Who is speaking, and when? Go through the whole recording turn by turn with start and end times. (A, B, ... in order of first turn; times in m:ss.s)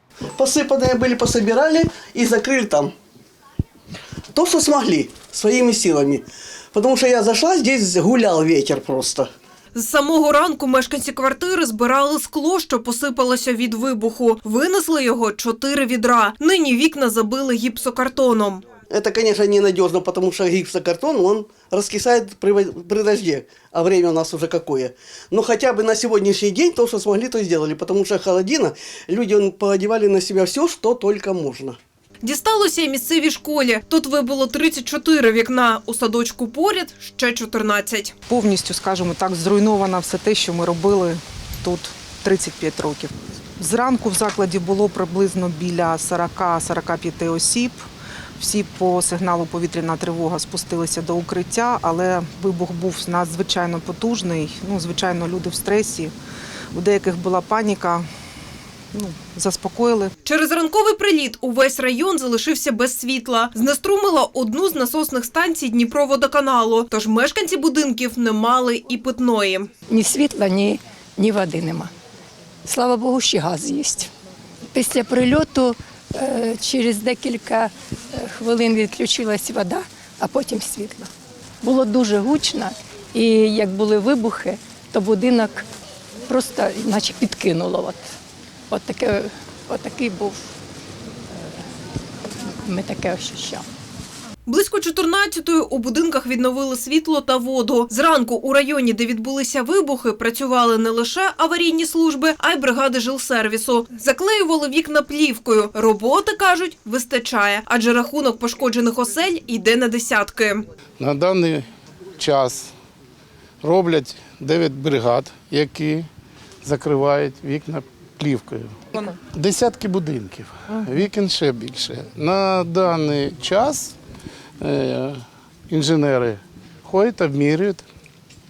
0:00.4-0:02.9 A
0:04.3-0:09.3 A
0:09.7-0:18.6 B
0:18.9-0:31.8 A
0:32.2-0:38.2 B
0:38.3-0:47.9 C
0:48.4-0:56.1 C
0:56.7-0:58.1 C
0:58.9-1:00.1 C
1:00.2-1:09.7 B
1:09.9-1:11.9 D
1:12.6-1:14.1 D
1:14.7-1:21.1 D
1:21.6-1:25.7 D
1:26.3-1:28.2 D
1:28.7-1:30.5 D
1:32.6-1:33.7 D
1:34.5-1:50.6 B
1:51.0-1:51.7 E
1:52.2-1:52.7 E
1:53.6-1:56.1 E
1:56.6-1:58.8 E
1:59.3-2:04.0 E
2:04.6-2:07.8 E